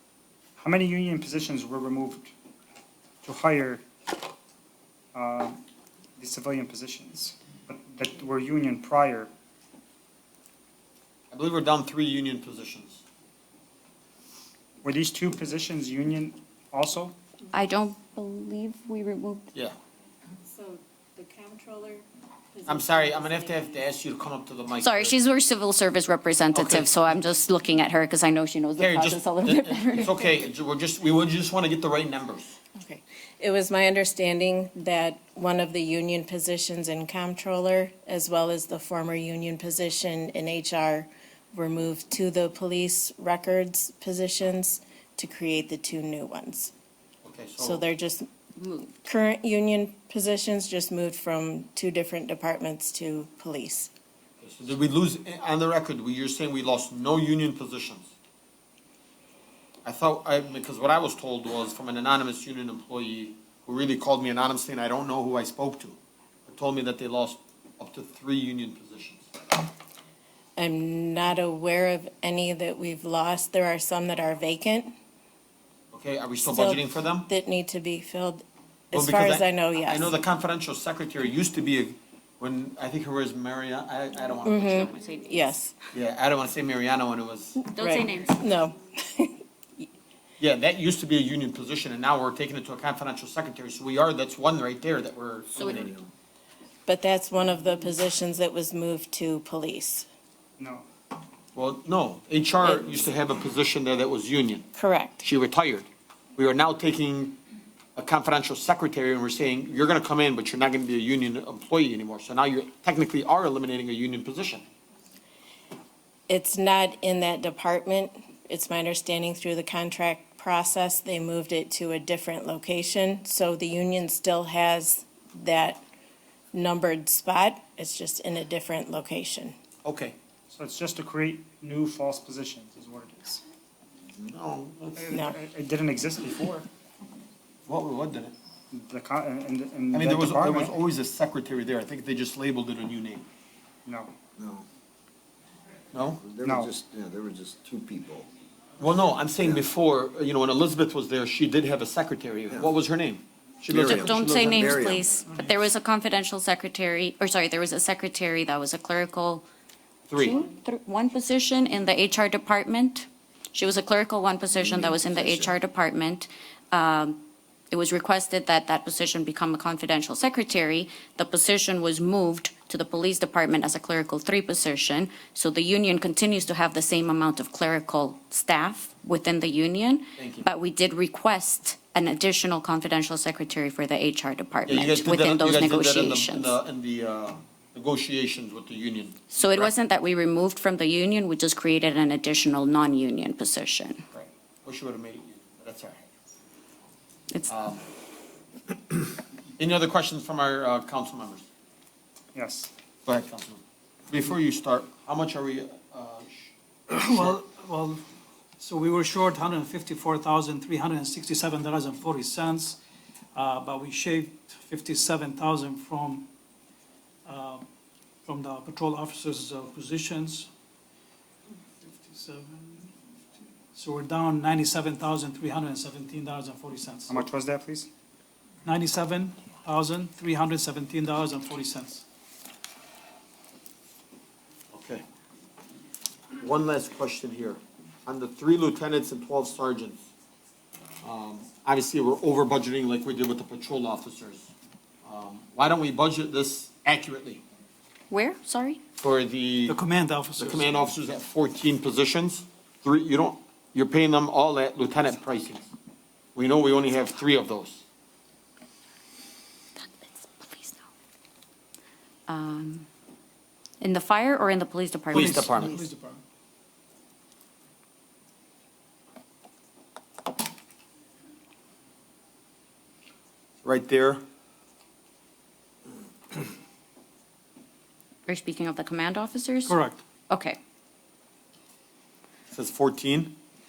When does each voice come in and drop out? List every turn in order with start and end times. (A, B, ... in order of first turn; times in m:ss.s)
0:00.6-0:02.3 A
0:03.2-0:03.8 A
0:05.1-0:05.6 A
0:06.2-0:09.3 A
0:11.3-0:13.0 B
0:14.8-0:17.2 A
0:17.5-0:19.5 C
0:20.4-0:23.8 D
0:22.7-0:25.2 B
0:24.8-0:30.2 C
0:26.5-0:26.9 B
0:28.8-0:32.6 B
0:32.7-0:46.7 D
0:47.2-0:47.9 B
0:47.6-0:48.3 D
0:48.6-0:48.9 C
0:49.0-0:53.9 D
0:54.4-0:58.1 B
0:59.8-1:09.2 B
1:10.6-1:14.9 D
1:15.9-1:17.3 B
1:16.4-1:20.2 D
1:18.9-1:24.9 B
1:24.4-1:25.7 D
1:24.5-1:25.5 C
1:25.9-1:27.6 B
1:27.6-1:29.8 D
1:27.7-1:28.4 C
1:30.4-1:36.0 B
1:35.6-1:35.9 C
1:35.6-1:36.1 E
1:36.8-1:40.1 D
1:40.6-1:40.8 A
1:41.5-1:44.7 B
1:44.8-1:45.2 D
1:45.2-1:45.8 B
1:46.4-1:47.4 B
1:48.0-1:54.6 B
1:56.3-2:05.8 D
2:06.5-2:09.6 D
2:09.8-2:10.2 B
2:10.5-2:13.4 A
2:14.2-2:15.0 B
2:15.0-2:16.7 A
2:17.7-2:18.4 B
2:18.7-2:20.7 A
2:19.9-2:23.2 B
2:23.9-2:24.1 A
2:24.4-2:24.7 E
2:25.9-2:26.2 B
2:26.2-2:28.3 E
2:26.4-2:26.7 A
2:28.8-2:34.7 B
2:32.5-2:32.7 E
2:33.7-2:35.1 E
2:33.9-2:39.4 C
2:40.1-2:40.4 B
2:40.2-3:06.6 C
2:44.6-2:45.5 E
3:00.2-3:00.5 B
3:04.7-3:09.7 B
3:09.3-3:14.0 C
3:14.1-3:16.1 B
3:17.5-3:17.8 B
3:19.6-3:21.5 B
3:22.3-3:22.7 A
3:23.1-3:26.5 B
3:26.9-3:28.0 F
3:28.6-3:32.8 F
3:33.3-3:36.3 F
3:37.2-3:37.7 F
3:38.2-3:40.5 F
3:41.8-3:42.9 F
3:43.7-3:47.3 F
3:47.1-3:47.9 A
3:48.6-3:52.0 F
3:54.7-3:55.0 B
3:56.4-4:00.1 B
4:01.0-4:04.5 B
4:05.0-4:07.4 B
4:08.1-4:08.8 C
4:09.0-4:09.8 B
4:09.7-4:10.8 F
4:10.4-4:15.7 B
4:16.3-4:17.8 B
4:19.8-4:20.8 C
4:22.3-4:22.9 C
4:23.8-4:25.5 C
4:25.1-4:25.8 B
4:25.1-4:26.2 F
4:33.6-4:34.2 B
4:38.2-4:39.8 C
4:39.6-4:40.0 F
4:40.3-4:40.6 C
4:42.5-4:43.3 B